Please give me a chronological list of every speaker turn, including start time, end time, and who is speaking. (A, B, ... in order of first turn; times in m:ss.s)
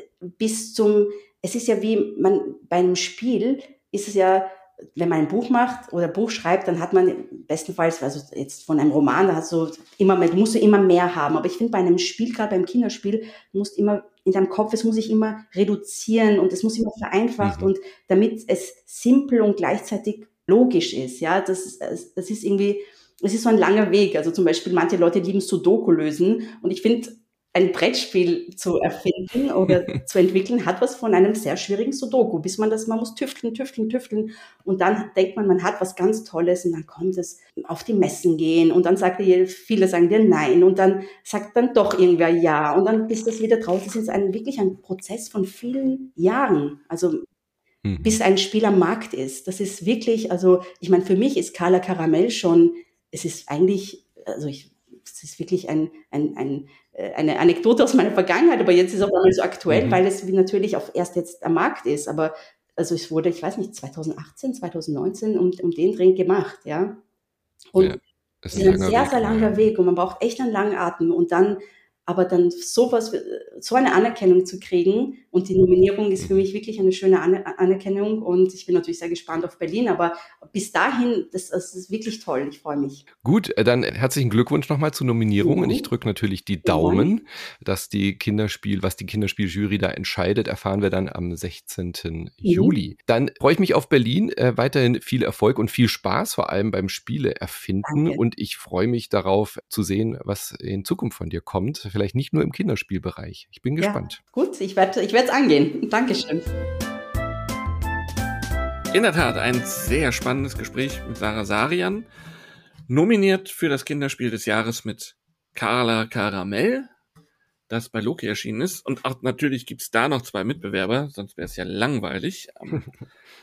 0:00.2-0:47.2 A
0:17.4-0:17.7 B
0:47.8-0:48.2 B
0:48.0-1:07.0 A
0:59.7-1:00.0 B
1:07.7-1:08.0 A
1:07.8-1:09.7 B
1:08.5-1:23.0 A
1:16.2-1:16.4 B
1:23.2-1:44.2 B
1:25.4-1:25.9 A
1:26.6-1:27.1 A
1:32.4-1:32.8 A
1:37.8-1:38.2 A
1:43.8-1:46.5 A
1:48.9-1:52.1 C
1:52.9-1:56.9 C
1:57.7-2:02.9 C